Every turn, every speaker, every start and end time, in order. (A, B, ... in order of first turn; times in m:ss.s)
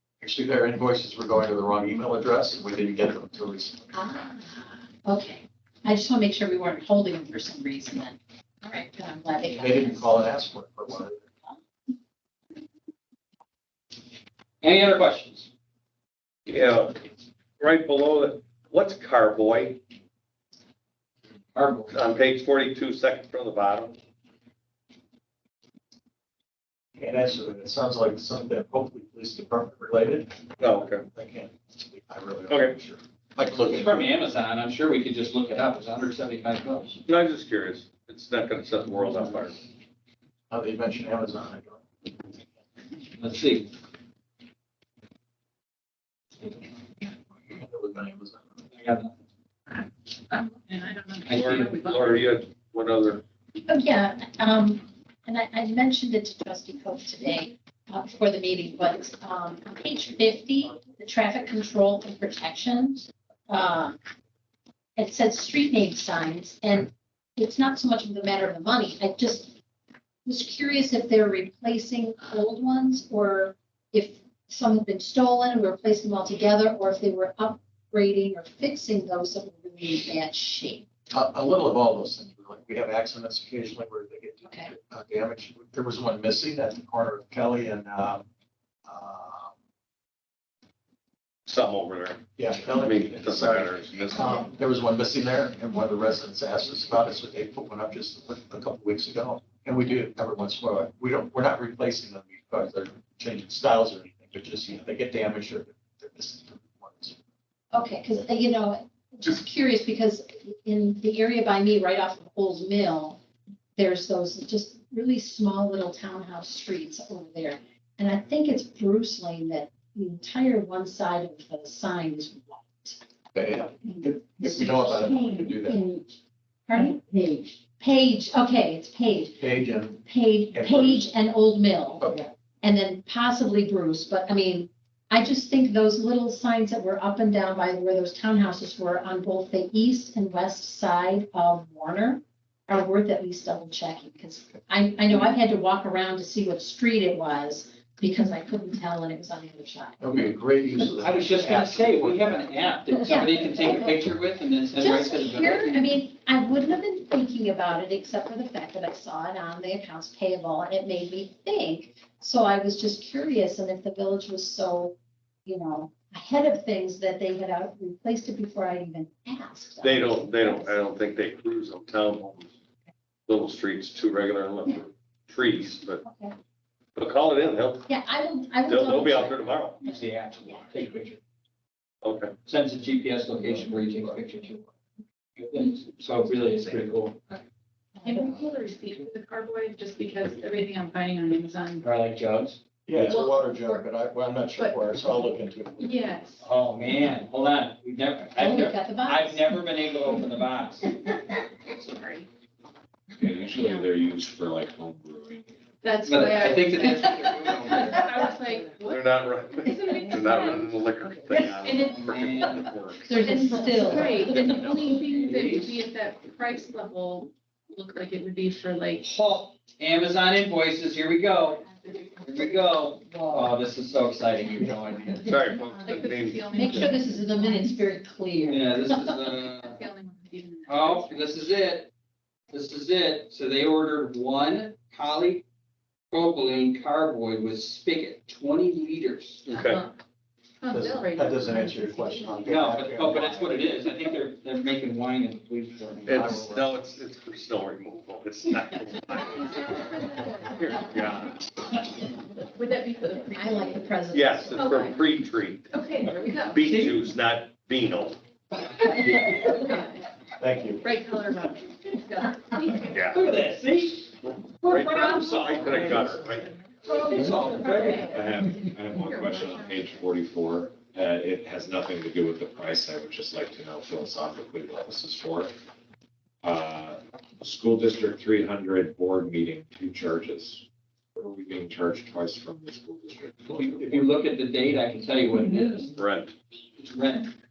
0:00.2-0:03.9 A
0:03.9-0:10.2 B
0:09.5-0:11.2 A
0:14.6-0:15.5 C
0:16.5-0:17.0 D
0:17.6-0:19.8 D
0:21.6-0:21.9 C
0:21.9-0:24.0 D
0:27.0-0:30.6 A
0:30.6-0:31.1 D
0:31.1-0:34.1 A
0:32.5-0:32.8 D
0:33.4-0:37.0 C
0:37.1-0:39.6 D
0:40.5-0:41.8 A
0:43.2-0:43.7 C
0:47.5-0:48.6 A
0:48.8-0:49.1 C
0:49.7-0:52.2 E
0:51.3-0:51.9 C
0:51.3-0:53.2 D
0:53.6-1:04.0 B
1:05.0-1:09.5 B
1:10.3-1:20.9 B
1:21.1-1:28.2 A
1:24.4-1:24.7 B
1:28.9-1:29.5 A
1:31.5-1:32.2 D
1:32.4-1:47.2 A
1:32.7-1:34.3 D
1:47.7-1:53.2 B
1:53.8-2:03.0 B
2:03.3-2:05.8 A
2:04.4-2:06.0 B
2:06.7-2:07.2 B
2:07.7-2:09.4 B
2:09.4-2:10.0 A
2:10.0-2:12.1 B
2:10.5-2:11.1 A
2:12.6-2:30.0 B
2:30.0-2:32.5 A
2:31.0-2:35.9 C
2:33.1-2:33.9 B
2:34.8-2:50.8 B
2:49.8-2:52.5 D
2:53.3-2:56.0 D
2:56.0-2:56.4 B
2:57.0-2:57.8 D
2:57.9-2:59.4 B
2:58.7-2:59.8 D
2:59.8-3:01.2 C
3:02.0-3:02.3 D
3:02.5-3:04.6 C
3:05.4-3:07.4 C
3:08.0-3:11.9 E
3:11.8-3:12.6 C
3:12.9-3:16.0 A
3:13.0-3:13.8 E
3:15.8-3:16.4 E
3:16.4-3:21.0 C
3:18.4-3:19.5 B
3:21.6-3:22.3 E
3:23.1-3:25.5 F
3:23.5-3:23.9 E
3:25.8-3:39.0 E
3:26.0-3:28.3 C
3:28.8-3:33.0 D
3:31.3-3:32.7 C
3:31.4-3:31.8 F
3:32.4-3:34.1 F
3:33.0-3:34.5 B
3:33.8-3:35.8 C
3:39.0-3:45.3 C
3:41.6-3:42.4 E
3:43.1-3:43.5 B
3:45.2-3:46.8 D
3:45.4-3:47.7 E
3:46.5-3:49.0 B
3:48.4-3:49.8 C
3:49.0-3:51.3 E
3:50.7-3:51.9 C
3:52.5-3:55.4 C
3:56.1-3:59.6 C
3:59.5-3:59.8 D
3:59.6-4:00.0 E
4:00.6-4:02.6 E
4:00.7-4:03.6 A
4:02.4-4:06.3 C
4:06.1-4:06.8 A
4:06.1-4:09.8 D
4:09.2-4:11.2 E
4:10.4-4:11.4 D
4:12.5-4:13.9 E
4:13.3-4:14.9 B
4:14.1-4:15.6 D
4:14.6-4:15.0 E
4:15.7-4:16.9 E
4:16.5-4:18.2 D
4:16.7-4:17.0 C
4:18.7-4:20.0 E
4:20.4-4:20.8 A
4:20.8-4:23.2 E
4:22.9-4:23.2 D
4:23.1-4:26.3 C
4:24.2-4:26.5 D
4:24.9-4:25.5 E
4:26.8-4:28.2 C
4:27.3-4:28.2 E
4:28.1-4:35.5 F
4:28.9-4:29.8 E
4:36.4-4:43.5 F
4:43.5-4:46.0 C
4:43.6-4:44.0 A
4:46.0-4:46.3 D
4:46.8-4:47.3 C